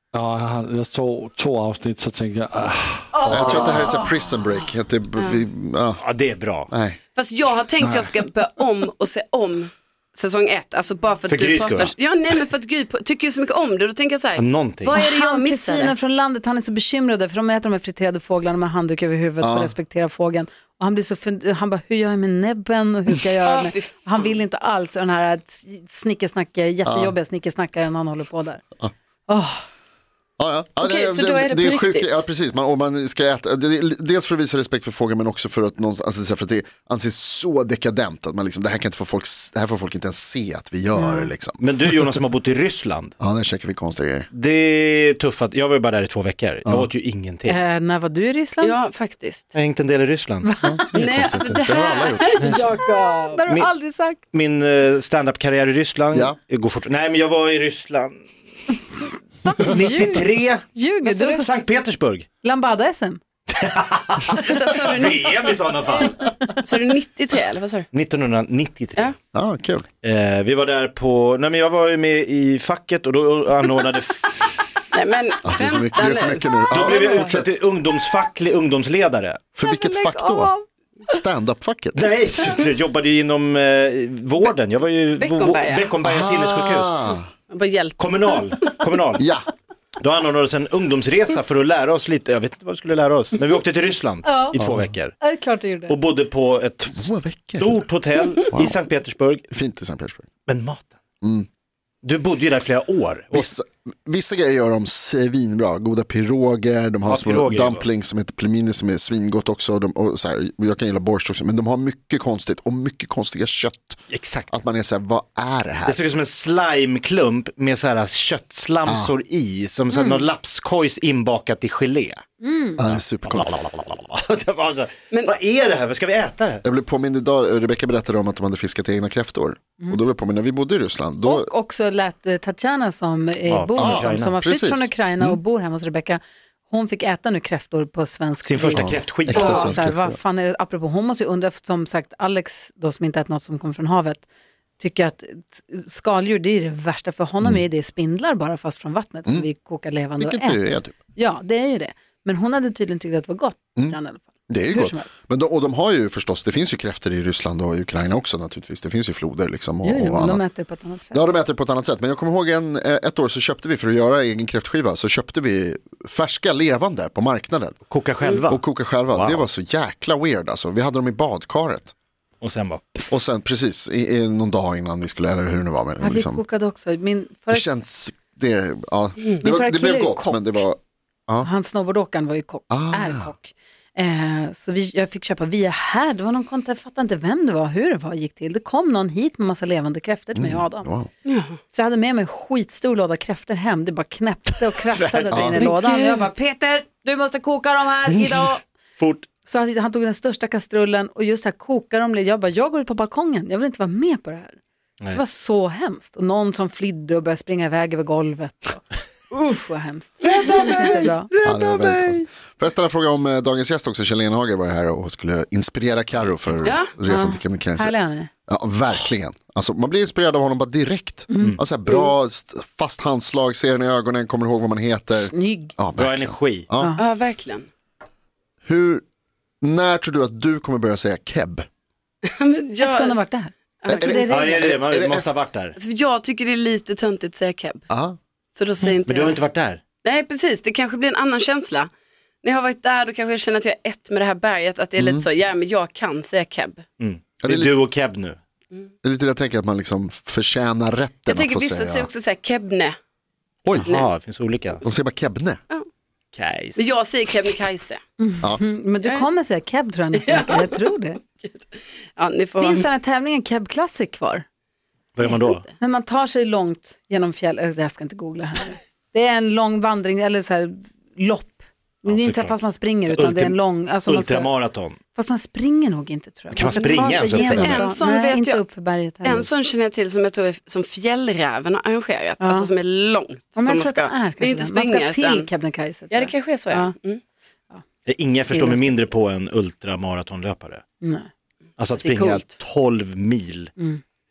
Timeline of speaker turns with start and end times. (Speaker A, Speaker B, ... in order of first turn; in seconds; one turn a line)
Speaker A: 0.1-3.7
Speaker B: 3.1-4.2
Speaker C: 3.3-6.0
Speaker D: 5.2-5.4
Speaker E: 6.0-6.7
Speaker C: 6.7-7.0
Speaker D: 7.1-15.9
Speaker C: 7.8-8.1
Speaker E: 11.3-11.9
Speaker E: 14.3-15.0
Speaker B: 14.9-28.6
Speaker C: 19.4-19.7
Speaker D: 23.4-24.3
Speaker C: 26.8-27.1
Speaker B: 29.3-29.6
Speaker C: 30.4-41.6
Speaker D: 30.8-32.2
Speaker B: 40.9-41.3
Speaker E: 41.6-43.1
Speaker C: 43.2-44.3
Speaker E: 44.3-47.6
Speaker B: 47.5-48.8
Speaker D: 48.6-49.5
Speaker E: 49.5-51.0
Speaker B: 50.4-51.0
Speaker C: 50.6-52.7
Speaker D: 50.9-53.4
Speaker B: 53.3-54.2
Speaker E: 54.3-58.2
Speaker E: 59.5-62.3
Speaker B: 59.5-61.5
Speaker B: 62.4-63.2
Speaker E: 63.5-66.2
Speaker D: 64.3-66.1
Speaker B: 66.2-66.5
Speaker D: 66.6-67.9
Speaker E: 67.9-69.1
Speaker C: 69.3-69.9
Speaker E: 70.0-74.6
Speaker D: 74.9-77.2
Speaker C: 75.4-77.5
Speaker E: 76.7-79.4
Speaker C: 79.5-80.5
Speaker B: 79.6-80.6
Speaker C: 81.1-82.1
Speaker E: 81.9-87.1
Speaker D: 85.2-85.9
Speaker C: 86.0-87.3
Speaker D: 87.5-88.6
Speaker E: 88.0-89.2
Speaker C: 89.2-89.5
Speaker E: 90.0-95.2
Speaker B: 94.2-94.6
Speaker C: 94.5-94.9
Speaker B: 95.2-96.0
Speaker E: 95.9-99.5
Speaker C: 96.9-97.8
Speaker C: 98.5-98.8
Speaker C: 99.5-100.3
Speaker E: 100.5-101.0
Speaker C: 101.2-101.5
Speaker E: 102.0-103.5
Speaker C: 103.3-114.0
Speaker E: 107.0-107.9
Speaker E: 114.1-114.5
Speaker C: 114.5-116.0
Speaker E: 115.8-122.2
Speaker C: 118.8-119.1
Speaker B: 119.9-120.2
Speaker B: 122.4-122.8
Speaker C: 122.8-123.5
Speaker E: 122.8-126.6
Speaker C: 126.6-131.5
Speaker B: 131.2-144.2
Speaker E: 133.4-134.3
Speaker C: 133.7-135.4
Speaker E: 138.4-139.8
Speaker C: 138.7-140.2
Speaker B: 144.8-150.6
Speaker C: 150.2-150.9
Speaker B: 151.1-155.1
Speaker C: 154.5-160.4
Speaker B: 159.8-161.2
Speaker C: 161.1-167.8
Speaker E: 167.9-169.5
Speaker C: 168.5-171.9
Speaker E: 172.4-173.1
Speaker C: 173.1-176.4
Speaker B: 176.0-177.6
Speaker C: 177.5-181.5
Speaker B: 179.4-180.6
Speaker B: 181.4-190.9
Speaker C: 182.7-183.3
Speaker C: 190.3-191.1
Speaker D: 191.2-191.6
Speaker B: 191.7-198.6
Speaker E: 194.9-195.7
Speaker C: 195.3-195.7
Speaker D: 195.6-196.2
Speaker E: 199.0-199.2
Speaker B: 199.4-204.6
Speaker B: 205.1-211.3
Speaker D: 210.2-212.2
Speaker C: 211.4-217.9
Speaker E: 216.2-216.7
Speaker D: 216.6-216.9
Speaker B: 217.1-218.3
Speaker C: 218.5-227.0
Speaker B: 221.3-221.6
Speaker B: 225.1-225.7
Speaker E: 225.9-226.7
Speaker B: 226.8-227.0
Speaker D: 227.0-227.7
Speaker C: 228.6-229.0
Speaker C: 229.6-231.7
Speaker D: 232.2-233.2
Speaker B: 232.8-234.7
Speaker D: 233.8-234.4
Speaker C: 233.9-235.3
Speaker E: 234.2-235.8
Speaker D: 235.8-237.8
Speaker C: 237.9-238.2
Speaker D: 238.5-239.4
Speaker E: 238.8-239.8
Speaker D: 240.0-241.9
Speaker D: 242.4-246.8
Speaker C: 245.0-245.2
Speaker E: 247.0-248.4
Speaker C: 247.4-247.8
Speaker C: 249.0-252.1
Speaker D: 251.3-252.9
Speaker C: 253.6-253.9
Speaker D: 253.7-254.1
Speaker E: 253.8-254.8
Speaker C: 254.8-255.6
Speaker E: 256.3-256.9
Speaker D: 256.8-258.0
Speaker B: 258.2-261.2
Speaker D: 259.0-259.3
Speaker D: 260.1-262.9
Speaker B: 262.6-264.4
Speaker E: 265.1-265.6
Speaker B: 265.8-274.5
Speaker E: 272.0-275.0
Speaker B: 275.1-279.5
Speaker E: 276.5-277.9
Speaker D: 276.6-278.6
Speaker D: 279.2-285.5
Speaker B: 282.4-282.7
Speaker B: 283.6-286.9
Speaker D: 286.1-287.2
Speaker E: 288.1-290.8
Speaker B: 288.4-289.0
Speaker B: 291.0-291.3
Speaker E: 291.8-293.7
Speaker D: 292.0-292.5